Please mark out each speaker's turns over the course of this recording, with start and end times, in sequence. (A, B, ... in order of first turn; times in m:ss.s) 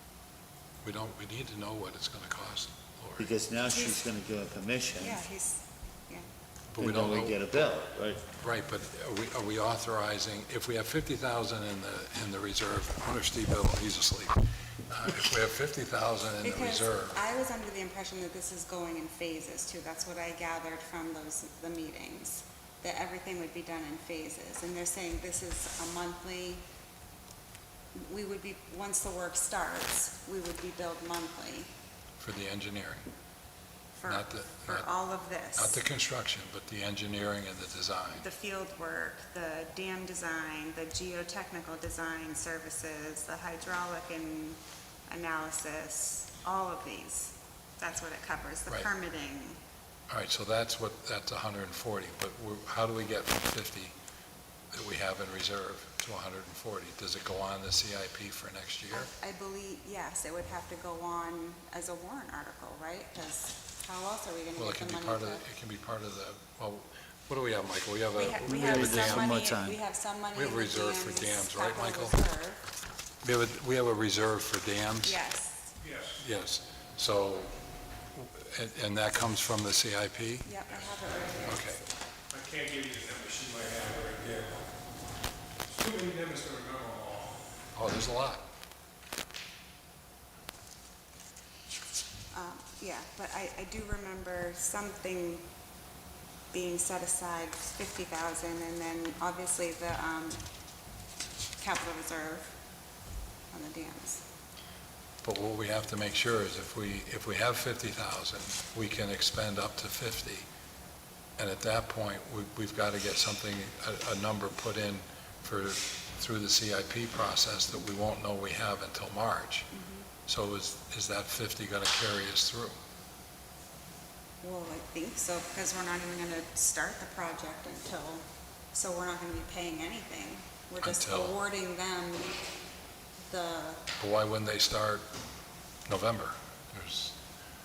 0:00.8-0:03.3 A
0:03.2-0:05.2 B
0:03.7-0:04.0 C
0:05.0-0:06.3 C
0:06.7-0:07.4 A
0:06.8-0:08.3 B
0:08.4-0:17.2 A
0:16.4-0:26.6 C
0:28.0-0:31.7 C
0:32.2-0:33.1 A
0:34.0-0:35.8 C
0:34.0-0:34.9 A
0:35.6-0:38.3 A
0:38.2-0:49.6 C
0:50.1-0:53.9 A
0:54.7-0:59.1 A
0:58.9-1:05.4 C
1:04.6-1:09.4 A
1:08.2-1:12.6 C
1:08.4-1:09.8 B
1:10.3-1:12.2 A
1:13.2-1:15.2 A
1:15.0-1:15.7 C
1:16.0-1:17.5 A
1:18.1-1:20.5 A
1:20.4-1:21.6 C
1:21.4-1:21.8 A
1:22.4-1:24.6 D
1:25.7-1:27.4 D
1:27.8-1:28.4 A
1:32.3-1:35.5 C
1:36.5-1:40.4 C
1:41.6-1:42.5 C
1:43.5-1:44.2 C
1:45.2-1:50.4 A
1:51.4-1:59.7 A
1:59.7-2:00.1 C
2:00.3-2:02.8 A
2:04.4-2:12.4 C
2:10.8-2:11.4 A
2:13.3-2:13.8 C
2:14.0-2:15.1 A
2:15.9-2:17.2 A